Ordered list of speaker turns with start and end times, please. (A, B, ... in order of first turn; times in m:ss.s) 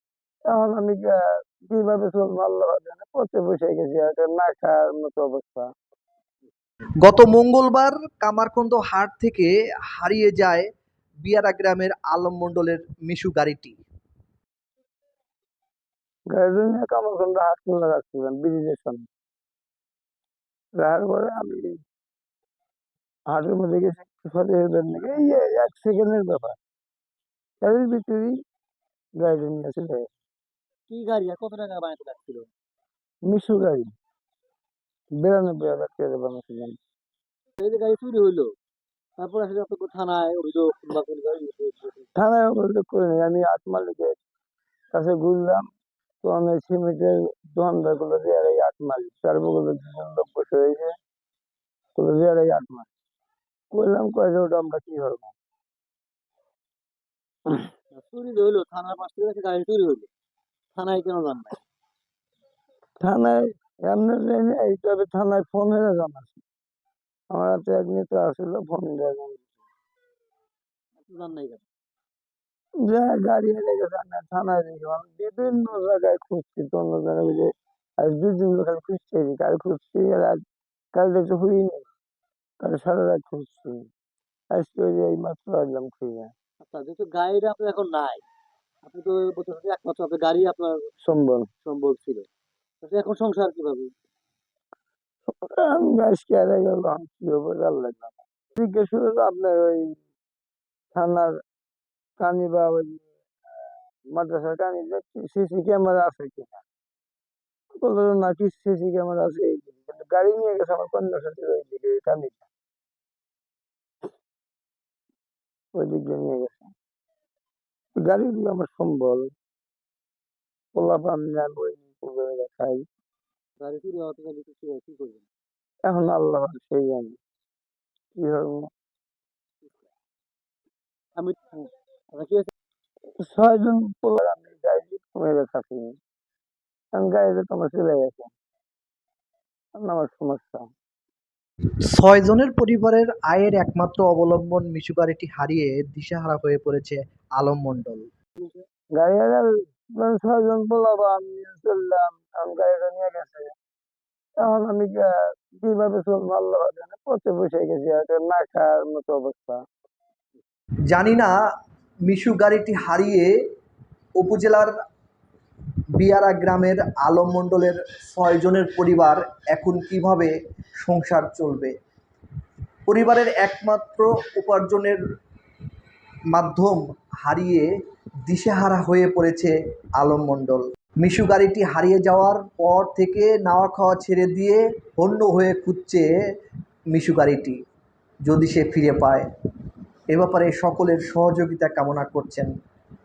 0:00.5-0:05.7 A
0:07.0-0:10.7 B
0:11.2-0:13.8 B
0:16.3-0:19.1 A
0:20.8-0:21.8 A
0:23.3-0:26.6 A
0:27.6-0:28.3 A
0:29.2-0:30.1 A
0:30.9-0:32.5 C
0:33.2-0:33.9 A
0:35.2-0:36.8 A
0:37.6-0:38.5 C
0:39.2-0:42.0 C
0:42.2-0:44.2 A
0:44.9-0:45.7 A
0:46.2-0:51.0 A
0:52.0-0:52.9 A
0:53.7-0:55.3 A
0:57.9-1:00.1 C
1:00.8-1:01.6 C
1:03.0-1:06.4 A
1:07.3-1:09.5 A
1:11.0-1:11.7 C
1:12.8-1:17.5 A
1:18.0-1:20.4 A
1:21.0-1:21.9 A
1:22.6-1:23.8 A
1:24.5-1:26.3 A
1:26.6-1:28.2 C
1:28.8-1:30.9 C
1:31.0-1:31.5 A
1:31.6-1:32.3 C
1:32.8-1:33.9 C
1:35.3-1:40.0 A
1:41.0-1:41.4 A
1:42.2-1:43.1 A
1:44.1-1:46.6 A
1:47.8-1:52.5 A
1:55.7-1:56.7 A
1:58.0-1:59.3 A
2:00.8-2:02.8 A
2:03.6-2:05.3 C
2:05.8-2:07.2 A
2:08.2-2:08.7 A
2:11.2-2:12.5 C
2:13.2-2:16.0 A
2:17.0-2:18.3 A
2:19.8-2:20.7 A
2:21.9-2:28.1 B
2:29.0-2:33.5 A
2:34.4-2:39.6 A
2:40.9-2:41.3 B
2:42.1-2:43.3 B
2:44.2-2:44.7 B
2:46.0-2:51.8 B
2:52.9-2:55.0 B
2:56.3-2:57.7 B
2:58.3-3:06.1 B
3:06.9-3:07.6 B
3:08.2-3:09.3 B
3:10.1-3:12.5 B